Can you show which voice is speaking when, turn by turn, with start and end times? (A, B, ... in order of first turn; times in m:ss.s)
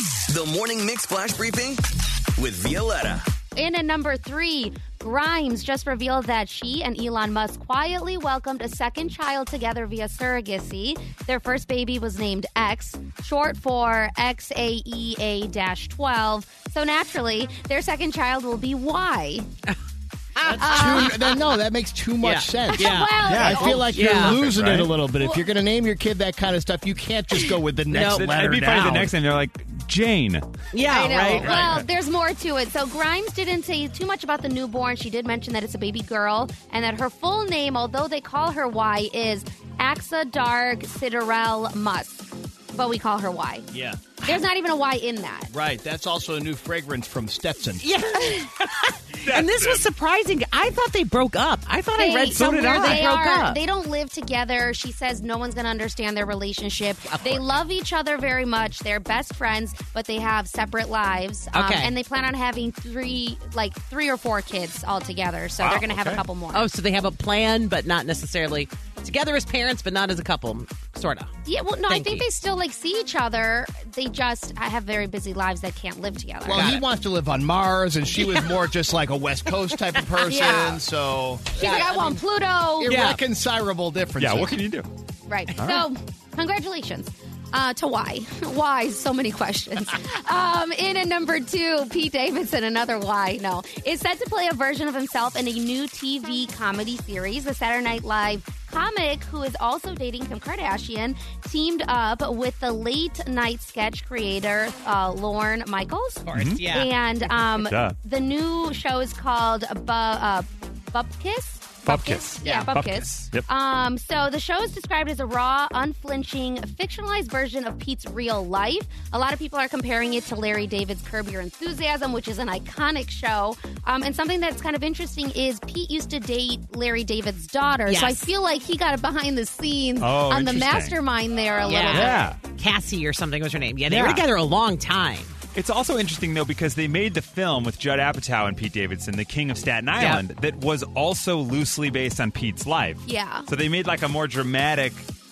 0:00.3-0:03.3 A
0:03.6-0:19.5 B
0:20.4-0:21.1 C
0:20.4-0:29.1 D
0:20.6-0:21.4 B
0:22.2-0:24.4 C
0:22.7-0:23.9 B
0:23.3-0:24.9 E
0:27.9-0:28.3 C
0:28.0-0:30.5 E
0:30.7-0:31.6 C
0:30.8-0:43.7 B
0:31.4-0:31.9 E
0:43.7-0:44.4 D
0:44.2-0:45.5 B
0:45.5-0:47.9 D
0:47.8-0:53.6 C
0:49.1-0:49.9 D
0:52.0-1:06.7 B
0:52.3-0:53.0 E
0:57.1-0:57.4 C
1:01.5-1:01.9 C
1:05.6-1:06.2 E
1:06.5-1:11.3 C
1:11.5-1:16.8 B
1:11.9-1:12.3 C
1:16.4-1:21.8 D
1:16.5-1:16.8 C
1:20.2-1:20.8 B
1:21.5-1:23.0 B
1:21.6-1:22.2 C
1:22.8-1:24.6 D
1:22.9-1:23.2 C
1:24.2-1:24.9 E
1:25.3-2:12.3 B
1:25.6-1:25.9 E
1:46.3-1:46.9 C
1:46.3-1:46.6 E
1:47.6-1:48.0 E
1:51.9-1:53.5 E
1:52.4-1:52.7 C
2:07.9-2:08.3 C
2:10.0-2:11.0 E
2:11.6-2:15.3 C
2:11.9-2:12.4 E
2:13.9-2:14.2 E
2:15.6-2:25.1 E
2:20.0-2:20.2 C
2:23.1-2:23.5 B